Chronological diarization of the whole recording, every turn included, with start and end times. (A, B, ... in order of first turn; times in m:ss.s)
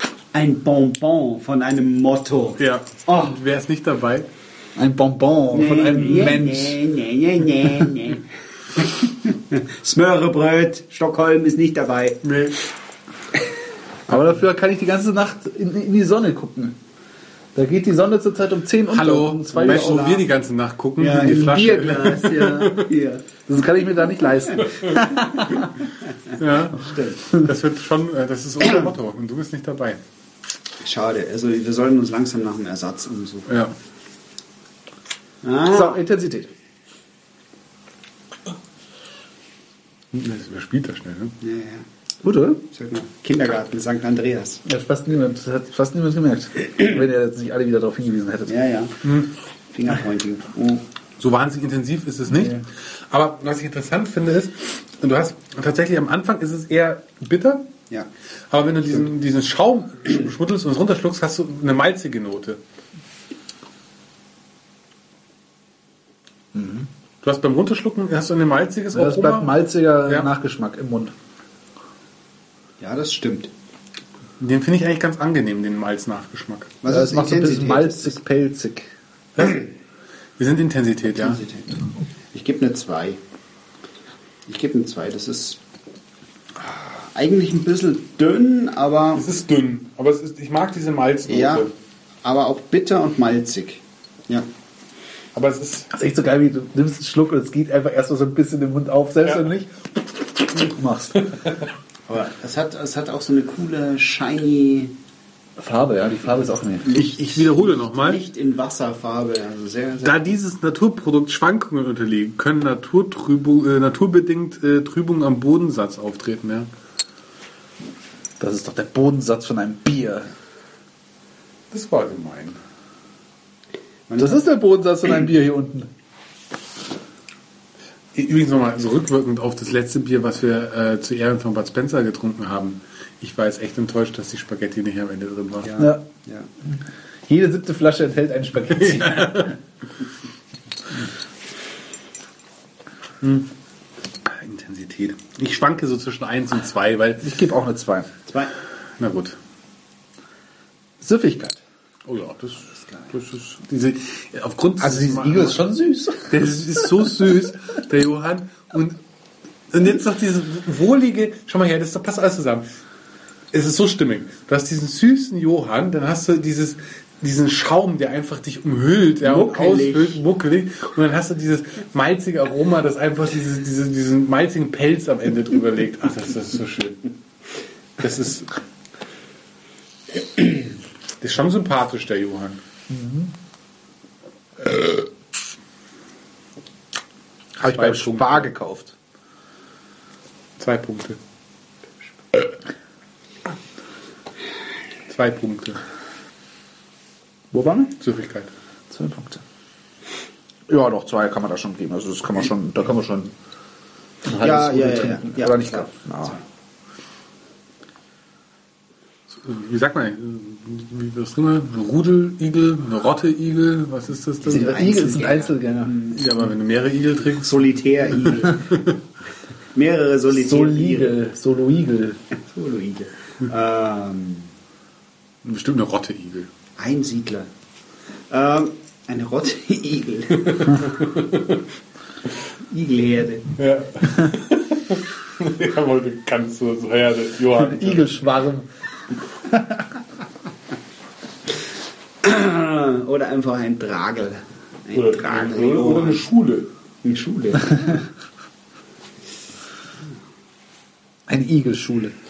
0:00.3-0:03.4 A
0:02.6-0:04.3 B
0:04.8-0:06.8 C
0:05.5-0:12.2 A
0:12.2-0:12.6 B
0:14.1-0:16.8 C
0:17.5-0:20.0 C
0:18.9-0:22.9 B
0:19.5-0:20.3 A
0:21.0-0:23.3 A
0:21.4-0:21.7 C
0:23.5-0:25.7 C
0:26.4-0:30.0 B
0:26.7-0:27.3 A
0:28.6-0:28.9 A
0:30.8-0:33.5 A
0:33.5-0:33.7 B
0:35.4-0:36.0 A
0:35.7-0:36.5 C
0:40.1-0:41.3 B
0:41.4-0:41.8 A
0:42.2-0:42.6 C
0:42.6-0:44.6 A
0:44.6-0:48.5 C
0:48.5-0:49.0 A
0:49.0-0:49.3 B
0:49.7-0:50.8 A
0:51.2-0:57.7 B
0:52.3-0:52.6 C
0:58.5-1:02.6 B
1:06.5-1:06.9 C
1:07.2-1:09.5 B
1:08.9-1:11.1 C
1:12.8-1:13.5 A
1:14.4-1:16.8 B
1:16.8-1:18.2 A
1:16.9-1:18.9 C
1:19.4-1:19.7 B
1:20.4-1:21.4 B
1:21.1-1:23.2 A
1:24.5-1:25.6 A
1:26.6-1:29.3 A
1:29.2-1:31.7 B
1:31.3-1:31.7 A
1:32.2-1:34.5 A
1:35.4-1:35.9 B
1:35.9-1:41.3 C
1:41.2-1:41.6 B
1:42.1-1:44.9 A
1:45.6-1:46.9 C
1:46.8-1:50.3 A
1:47.0-1:48.2 B
1:50.0-1:56.7 B
1:58.4-2:00.3 C
2:01.7-2:02.6 B
2:04.1-2:04.4 A
2:04.2-2:05.9 C
2:08.1-2:15.7 B
2:15.6-2:16.5 A
2:17.3-2:19.5 C
2:18.7-2:19.6 B
2:23.2-2:23.5 B
2:24.3-2:27.3 B
2:27.2-2:28.1 C
2:28.3-2:28.5 A
2:29.0-2:29.4 B
2:31.0-2:31.6 C
2:32.1-2:35.6 B
2:34.8-2:37.1 C
2:36.3-2:39.0 B
2:39.7-2:42.7 B
2:43.5-2:57.1 B
2:49.2-2:50.2 A
2:58.0-2:58.6 B
3:01.2-3:02.6 B
3:02.9-3:03.3 C
3:07.6-3:08.9 C
3:07.6-3:08.5 B
3:10.6-3:11.2 B
3:15.1-3:15.8 B
3:17.5-3:17.9 C
3:18.0-3:18.5 B
3:18.9-3:19.4 C
3:20.7-3:23.3 C
3:24.2-3:26.4 C
3:24.4-3:26.4 A
3:29.3-3:35.2 B
3:34.4-3:36.2 A
3:34.4-3:36.0 C
3:36.1-3:39.0 B
3:37.4-3:38.6 A
3:39.7-3:41.2 A
3:40.3-3:42.2 C
3:42.4-3:44.5 A
3:45.4-3:46.5 B
3:46.8-3:47.5 A
3:48.3-3:50.9 A
3:50.4-3:51.6 B
3:52.7-3:53.5 A
3:53.6-3:58.2 B
3:57.6-3:58.7 C
3:59.5-3:59.9 C
4:02.2-4:06.2 A
4:04.9-4:06.7 B
4:07.0-4:08.1 A
4:11.3-4:12.1 C